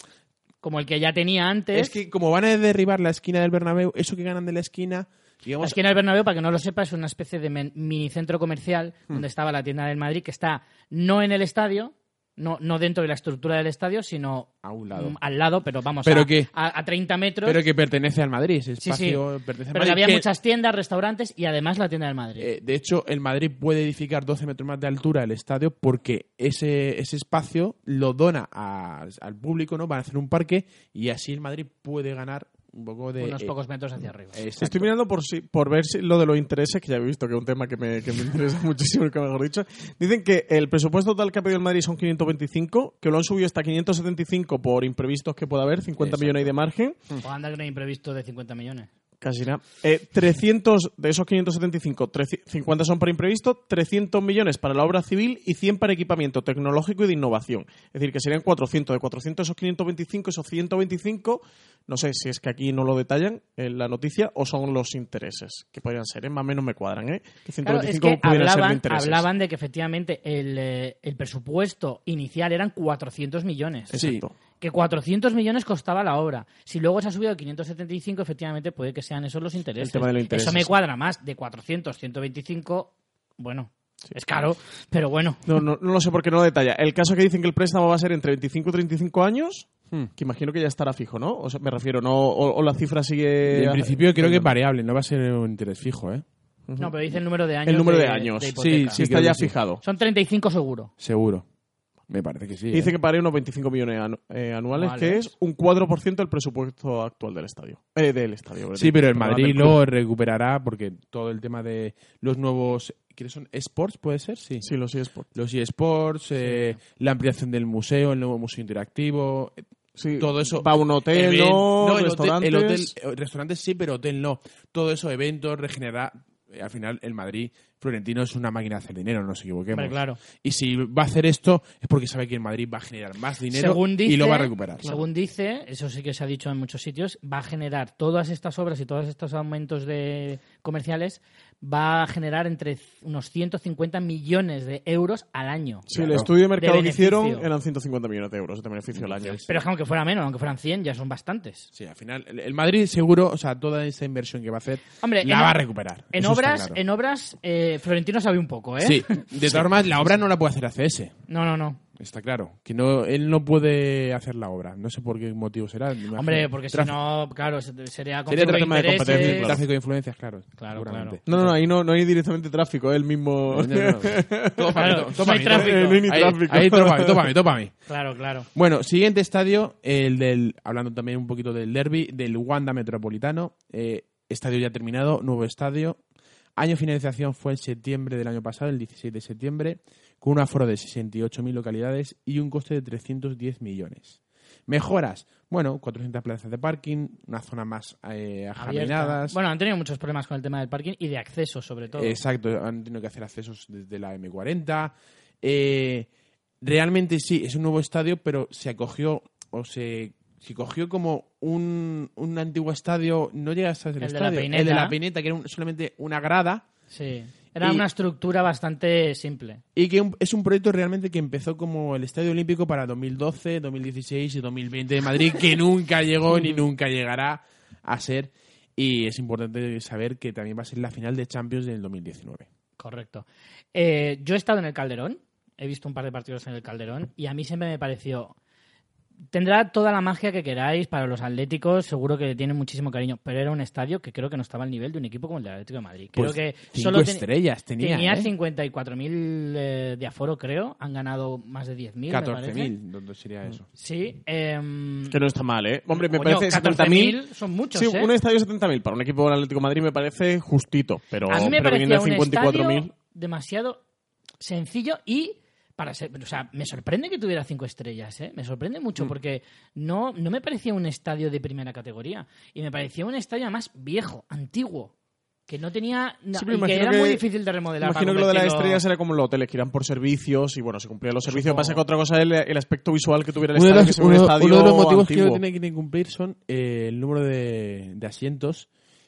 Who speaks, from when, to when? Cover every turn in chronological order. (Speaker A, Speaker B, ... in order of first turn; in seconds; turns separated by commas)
Speaker A: 0.6-1.9, Speaker B: 1.7-5.8, Speaker A: 5.6-17.6, Speaker B: 14.6-15.2, Speaker B: 16.0-16.5, Speaker B: 17.4-20.3, Speaker A: 18.8-19.2, Speaker A: 19.7-22.5, Speaker B: 22.4-33.5, Speaker A: 33.2-34.4, Speaker B: 34.3-34.9, Speaker C: 34.6-47.0, Speaker B: 46.0-46.5, Speaker A: 47.2-48.9, Speaker C: 49.2-69.2, Speaker A: 67.6-74.0, Speaker C: 73.9-74.3, Speaker B: 73.9-74.2, Speaker A: 74.6-85.4, Speaker C: 79.8-80.7, Speaker C: 85.5-94.5, Speaker B: 93.5-96.2, Speaker C: 96.7-97.0, Speaker A: 96.8-99.0, Speaker C: 97.6-99.8, Speaker B: 98.6-99.6, Speaker A: 99.8-100.9, Speaker B: 101.0-101.5, Speaker B: 102.1-102.9, Speaker C: 102.7-109.8, Speaker A: 104.7-105.2, Speaker B: 108.7-114.7, Speaker C: 114.6-115.3, Speaker B: 115.3-119.6, Speaker A: 116.5-116.7, Speaker C: 120.0-122.9, Speaker B: 120.2-134.9, Speaker A: 129.7-130.2, Speaker A: 133.5-145.9, Speaker C: 145.9-149.4, Speaker B: 145.9-146.3, Speaker A: 146.6-147.5, Speaker B: 148.9-149.6, Speaker A: 149.5-151.7, Speaker B: 151.7-156.8, Speaker A: 155.0-155.6, Speaker A: 156.1-159.3, Speaker B: 158.8-161.1, Speaker A: 161.3-161.8, Speaker B: 161.9-166.9, Speaker A: 166.1-169.6, Speaker B: 168.3-171.6, Speaker C: 168.3-169.6, Speaker A: 170.6-171.2, Speaker C: 171.3-177.3, Speaker B: 173.5-177.9, Speaker A: 174.8-176.0, Speaker A: 177.9-178.5, Speaker B: 178.5-186.0, Speaker B: 186.6-199.4, Speaker A: 198.6-202.2, Speaker B: 201.9-206.1, Speaker B: 206.6-216.7, Speaker A: 214.0-214.9, Speaker A: 216.9-219.6, Speaker B: 219.7-232.5, Speaker A: 232.8-238.3, Speaker A: 239.3-247.2, Speaker B: 246.1-248.3, Speaker A: 247.8-252.7, Speaker B: 252.1-253.7, Speaker A: 253.8-255.2, Speaker C: 255.1-257.2, Speaker A: 255.9-258.1, Speaker C: 257.7-262.9, Speaker A: 261.3-263.8, Speaker A: 264.4-274.9, Speaker A: 275.5-278.8, Speaker C: 276.3-277.2, Speaker C: 277.8-285.4, Speaker A: 281.3-281.8, Speaker B: 283.5-288.7